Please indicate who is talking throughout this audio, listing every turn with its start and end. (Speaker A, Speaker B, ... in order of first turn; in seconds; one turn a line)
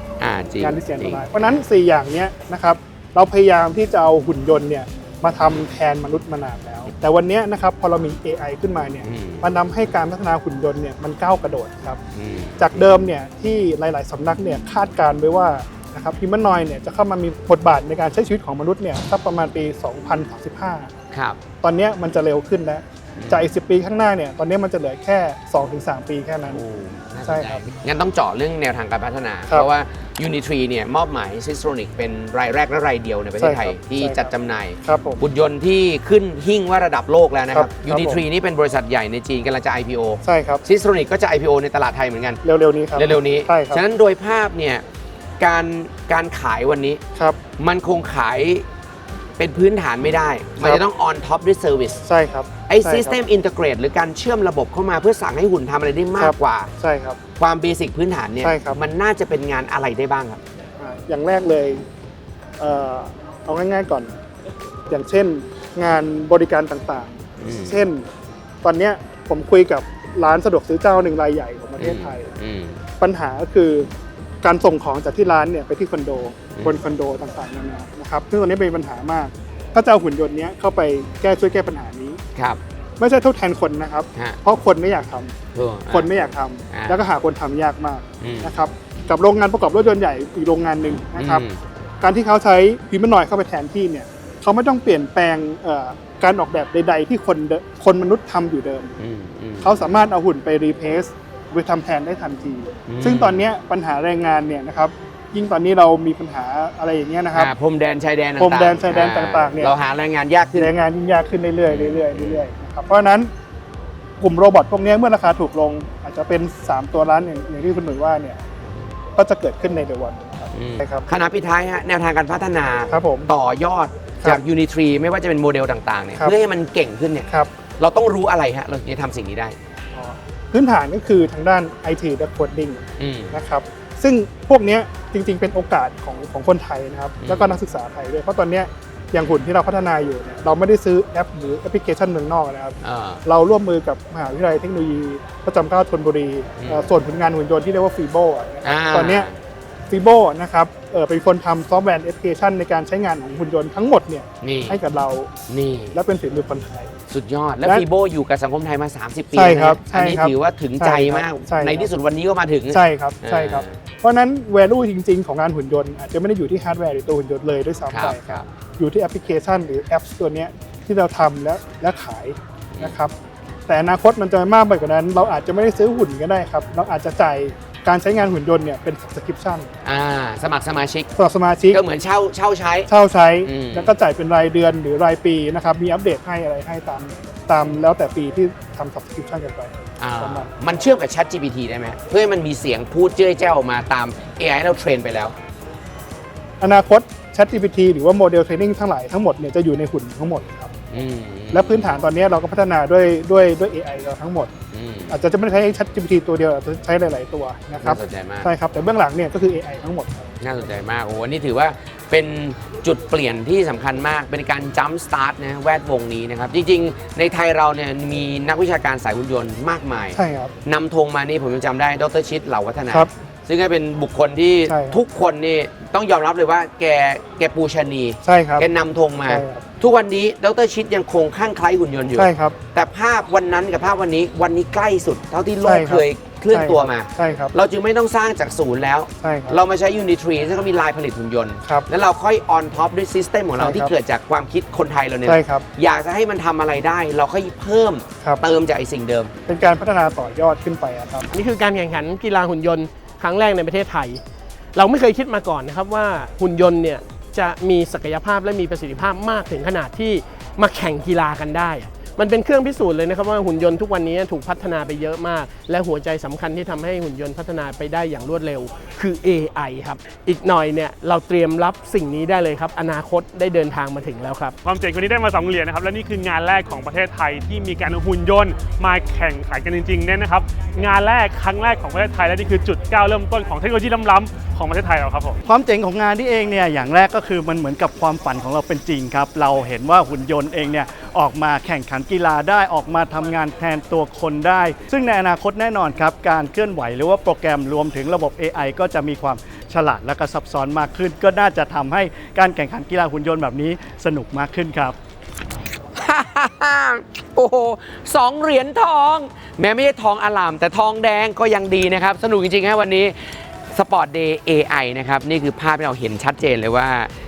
Speaker A: 0.2-1.2
Speaker B: 0.6-12.0
Speaker A: 9.0-9.5
Speaker A: 12.1-12.9
Speaker B: 12.6-20.9
Speaker A: 21.1-21.4
Speaker B: 21.6-26.6
Speaker A: 23.2-23.5
Speaker A: 26.5-42.4
Speaker B: 27.2-27.6
Speaker B: 33.4-34.3
Speaker B: 34.8-35.2
Speaker B: 37.5-38.2
Speaker B: 40.2-40.6
Speaker B: 42.4-43.8
Speaker A: 42.9-44.8
Speaker A: 45.4-47.0
Speaker A: 47.6-48.6
Speaker A: 49.4-52.0
Speaker B: 52.0-53.2
Speaker A: 52.7-56.7
Speaker B: 56.2-57.2
Speaker A: 57.4-60.4
Speaker B: 58.4-58.8
Speaker B: 60.8-61.8
Speaker B: 62.6-64.1
Speaker B: 64.9-68.0
Speaker A: 67.4-67.8
Speaker B: 68.6-72.3
Speaker A: 71.8-72.8
Speaker B: 73.0-73.9
Speaker B: 74.4-82.2
Speaker B: 83.0-85.3
Speaker A: 85.5-87.0
Speaker B: 85.9-91.4
Speaker A: 88.2-88.5
Speaker A: 91.1-91.6
Speaker B: 92.0-99.0
Speaker A: 99.0-99.9
Speaker B: 99.6-107.5
Speaker A: 102.9-103.5
Speaker A: 107.3-110.7
Speaker B: 108.4-109.8
Speaker B: 110.5-113.3
Speaker A: 111.7-112.5
Speaker B: 114.2-118.4
Speaker B: 119.2-121.0
Speaker A: 120.5-129.6
Speaker B: 122.9-123.3
Speaker B: 129.9-149.3
Speaker A: 133.0-133.4
Speaker A: 137.2-137.6
Speaker A: 142.8-143.2
Speaker A: 146.6-146.9
Speaker A: 148.6-149.4
Speaker B: 149.9-155.3
Speaker A: 154.4-154.8
Speaker A: 155.5-156.0
Speaker B: 155.9-156.9
Speaker A: 157.1-163.8
Speaker B: 159.3-161.9
Speaker B: 162.7-173.1
Speaker A: 167.9-168.5
Speaker B: 173.7-179.7
Speaker A: 179.8-181.1
Speaker B: 181.2-181.8
Speaker A: 181.7-182.9
Speaker B: 182.9-190.8
Speaker A: 183.4-183.9
Speaker A: 190.0-195.3
Speaker B: 196.6-200.8
Speaker A: 200.9-202.0
Speaker B: 201.5-204.5
Speaker A: 204.7-205.2
Speaker B: 205.1-210.3
Speaker A: 207.8-208.5
Speaker A: 210.4-249.3
Speaker B: 220.1-220.5
Speaker B: 224.7-225.0
Speaker B: 228.2-228.7
Speaker B: 229.3-229.6
Speaker B: 232.2-232.6
Speaker B: 235.6-237.5
Speaker B: 239.2-239.6
Speaker B: 243.6-243.9
Speaker B: 245.2-245.6
Speaker B: 249.5-251.3
Speaker C: 251.3-254.2
Speaker C: 254.7-274.6
Speaker D: 274.6-285.4
Speaker E: 285.4-304.9
Speaker A: 305.9-313.2
Speaker A: 313.7-317.1